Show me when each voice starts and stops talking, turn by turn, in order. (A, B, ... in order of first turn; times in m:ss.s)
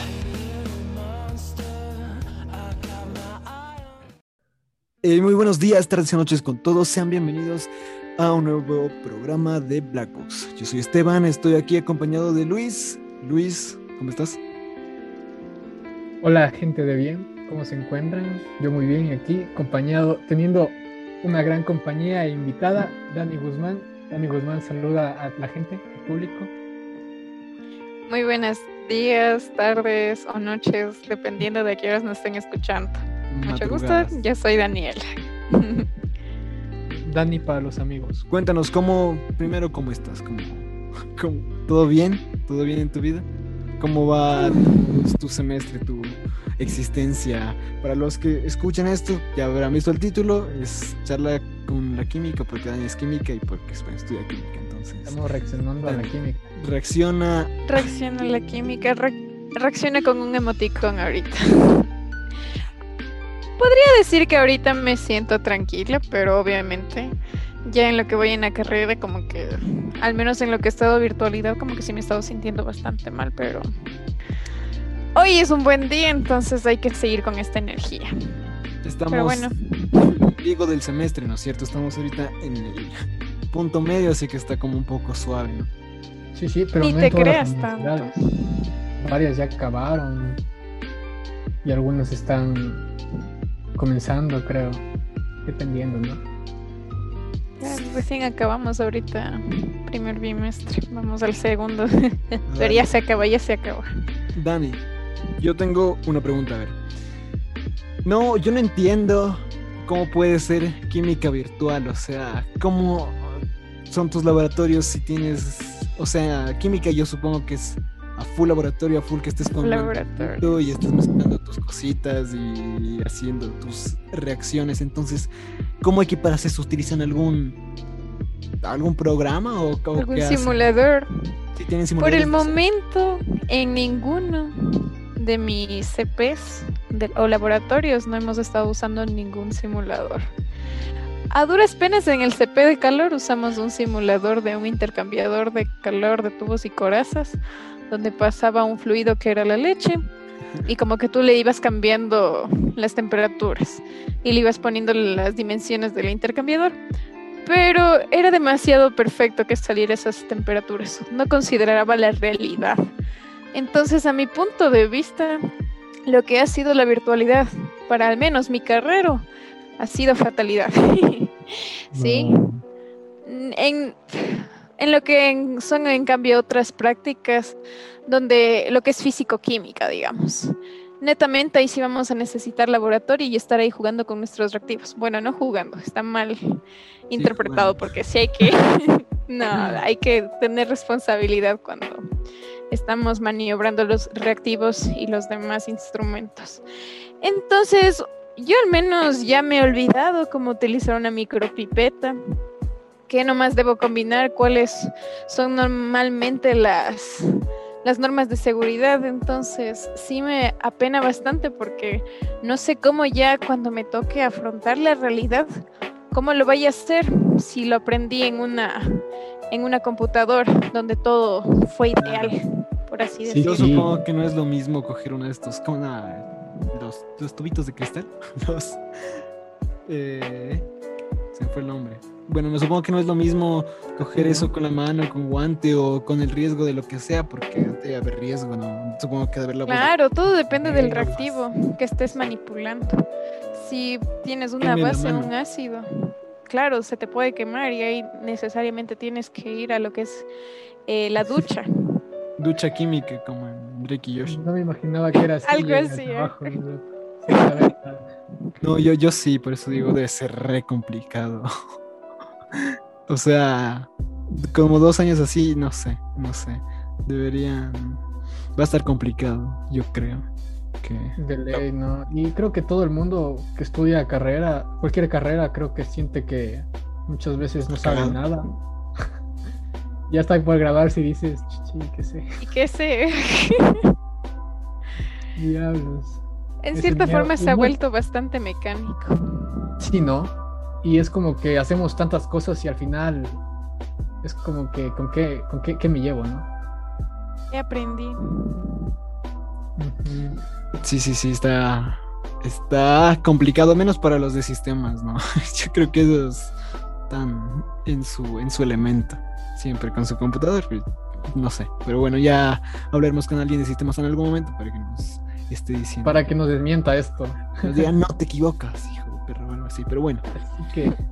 0:05.0-0:14.4 A
0:16.2-0:26.5 B
0:28.1-0:35.9 C
0:33.3-0:34.2 A
0:36.9-0:38.2 B
0:38.3-0:43.3 A
0:43.8-0:55.2 A
0:44.4-0:44.8 C
0:55.1-0:56.4 B
0:55.8-0:57.6 A
0:57.7-1:01.8 C
1:03.6-1:07.2 C
1:07.7-1:13.7 C
1:15.2-1:18.1 C
1:18.8-1:23.0 A
1:19.1-1:20.2 C
1:23.5-1:25.7 A
1:26.4-1:28.1 B
1:26.8-1:28.2 C
1:29.0-1:30.4 B
1:31.6-1:32.9 B
1:33.8-1:34.8 B
1:35.4-1:36.2 B
1:37.6-1:43.9 C
1:42.5-1:42.9 A
1:44.3-1:44.8 A
1:45.4-1:46.8 A
1:48.0-2:05.3 A
1:59.6-2:00.6 C
2:05.8-2:07.6 A
2:08.6-2:10.7 A
2:10.0-2:11.1 C
2:11.6-2:12.6 A
2:12.0-2:20.3 C
2:21.3-2:30.0 C
2:30.6-2:36.8 C
2:37.4-2:42.8 C
2:43.5-2:45.4 C
2:46.1-2:49.2 C
2:49.8-2:52.4 C
2:52.0-2:52.6 B
2:53.2-3:12.0 C
3:07.2-3:07.9 A
3:12.7-3:16.6 C
3:17.2-3:22.2 C
3:23.1-3:27.3 C
3:27.8-3:35.5 C
3:36.1-3:43.6 C
3:42.0-3:42.4 A
3:43.2-3:43.9 B
3:43.4-3:48.8 A
3:49.9-3:50.7 A
3:51.3-3:59.9 A
3:54.2-3:54.5 B
3:59.7-4:03.0 C
4:00.5-4:01.4 A
4:03.5-4:10.3 C
4:04.6-4:05.3 A
4:10.9-4:11.7 C
4:12.4-4:14.4 A
4:14.3-4:18.1 B
4:15.5-4:16.6 C
4:18.6-4:21.5 A
4:22.6-4:28.0 A
4:28.6-4:30.3 A
4:30.8-4:31.6 A
4:31.2-4:38.5 B
4:37.7-4:38.2 A
4:40.1-4:42.3 B
4:42.4-4:43.8 C
4:45.4-4:46.2 B
4:46.6-4:49.1 C
4:46.7-4:47.7 B
4:49.8-4:53.4 B
4:54.2-4:56.5 B
4:57.5-4:58.8 C
4:59.8-5:00.4 B
5:00.8-5:06.5 A
5:07.1-5:16.3 A
5:16.0-5:17.9 B
5:17.6-5:20.3 A
5:20.4-5:21.0 B